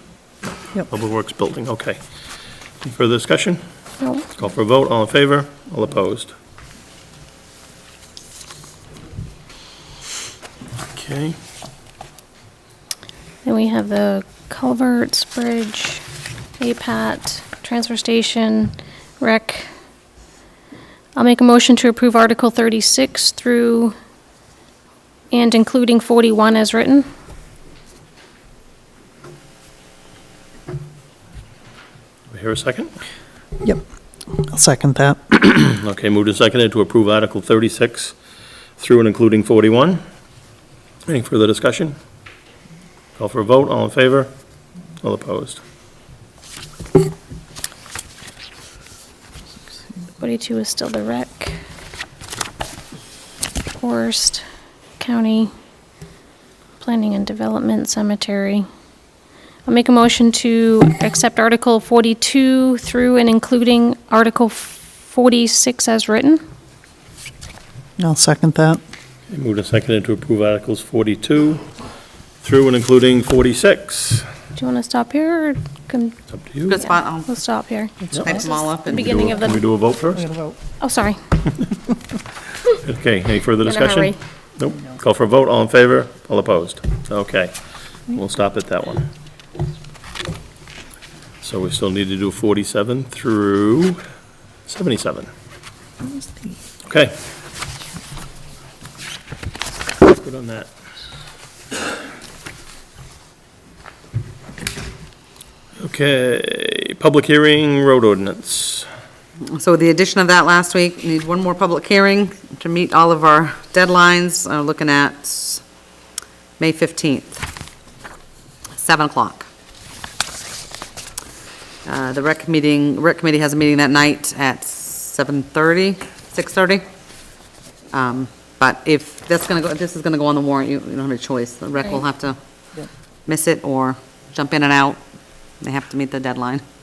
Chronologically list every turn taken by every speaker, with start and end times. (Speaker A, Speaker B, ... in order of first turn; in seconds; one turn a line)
Speaker A: 0.8-2.0
Speaker A: 2.8-3.6
Speaker A: 4.3-6.3
Speaker A: 10.9-11.4
Speaker B: 13.4-16.0
Speaker B: 16.6-19.7
Speaker B: 21.1-23.9
Speaker B: 25.3-27.1
Speaker A: 32.3-32.9
Speaker C: 34.4-35.2
Speaker A: 35.5-38.2
Speaker A: 38.8-40.0
Speaker A: 41.1-42.0
Speaker A: 43.2-44.3
Speaker A: 45.0-45.6
Speaker B: 50.2-51.5
Speaker B: 53.8-54.4
Speaker B: 55.0-55.5
Speaker B: 56.8-58.7
Speaker B: 59.7-66.4
Speaker C: 68.0-68.8
Speaker A: 69.3-71.7
Speaker A: 72.4-74.3
Speaker B: 74.6-76.2
Speaker A: 76.3-76.8
Speaker D: 76.7-77.3
Speaker B: 76.8-79.6
Speaker D: 78.2-79.2
Speaker A: 78.9-80.3
Speaker C: 80.2-80.5
Speaker B: 80.8-81.2
Speaker A: 82.8-87.5
Speaker B: 83.6-84.2
Speaker A: 88.1-89.1
Speaker A: 91.4-94.0
Speaker A: 94.7-95.3
Speaker C: 96.0-96.5
Speaker A: 96.9-97.1
Speaker A: 100.1-100.7
Speaker A: 105.8-108.9
Speaker D: 109.4-115.6
Speaker D: 116.6-117.5
Speaker D: 118.8-119.5
Speaker D: 121.8-126.8
Speaker D: 127.9-132.4
Speaker D: 133.3-135.0
Speaker D: 135.6-136.6